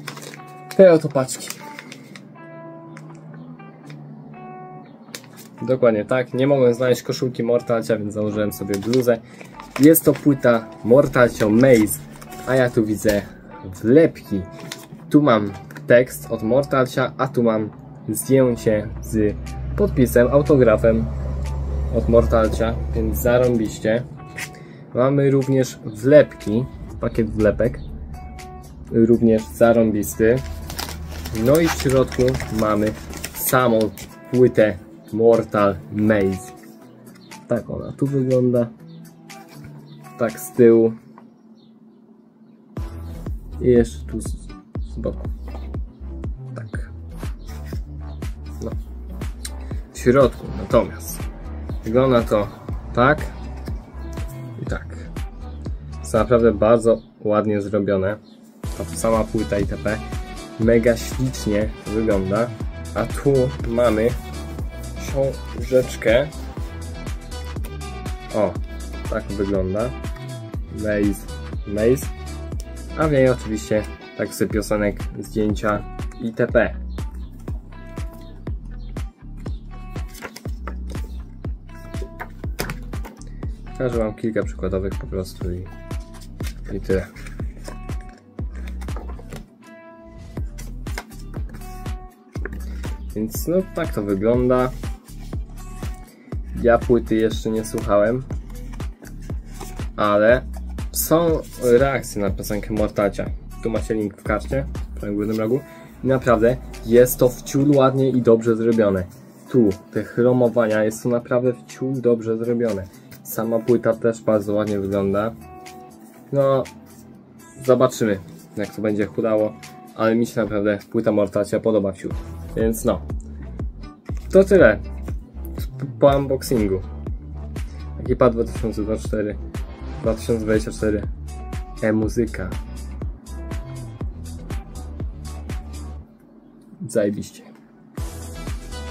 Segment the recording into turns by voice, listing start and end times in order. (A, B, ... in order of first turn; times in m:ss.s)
0:00.7-0:01.6 A
0:05.6-0:09.2 A
0:09.8-0:14.5 A
0:15.1-0:21.1 A
0:21.9-0:24.1 A
0:24.9-0:27.8 A
0:28.9-0:30.4 A
0:31.3-0:36.5 A
0:37.5-0:38.7 A
0:40.2-0:41.0 A
0:43.6-0:45.3 A
0:46.5-0:46.9 A
0:49.9-0:51.2 A
0:51.8-0:53.4 A
0:54.6-0:55.1 A
0:56.0-0:58.2 A
0:58.7-1:00.0 A
1:00.6-1:04.2 A
1:05.0-1:06.3 A
1:08.3-1:10.0 A
1:10.7-1:12.1 A
1:13.0-1:16.8 A
1:23.8-1:25.7 A
1:26.7-1:27.1 A
1:33.1-1:34.7 A
1:36.6-1:38.3 A
1:40.0-1:55.4 A
1:56.3-1:56.7 A
1:57.6-2:03.0 A
2:04.3-2:04.8 A
2:05.6-2:06.9 A
2:08.0-2:09.4 A
2:10.0-2:11.1 A
2:11.8-2:12.6 A
2:16.8-2:17.5 A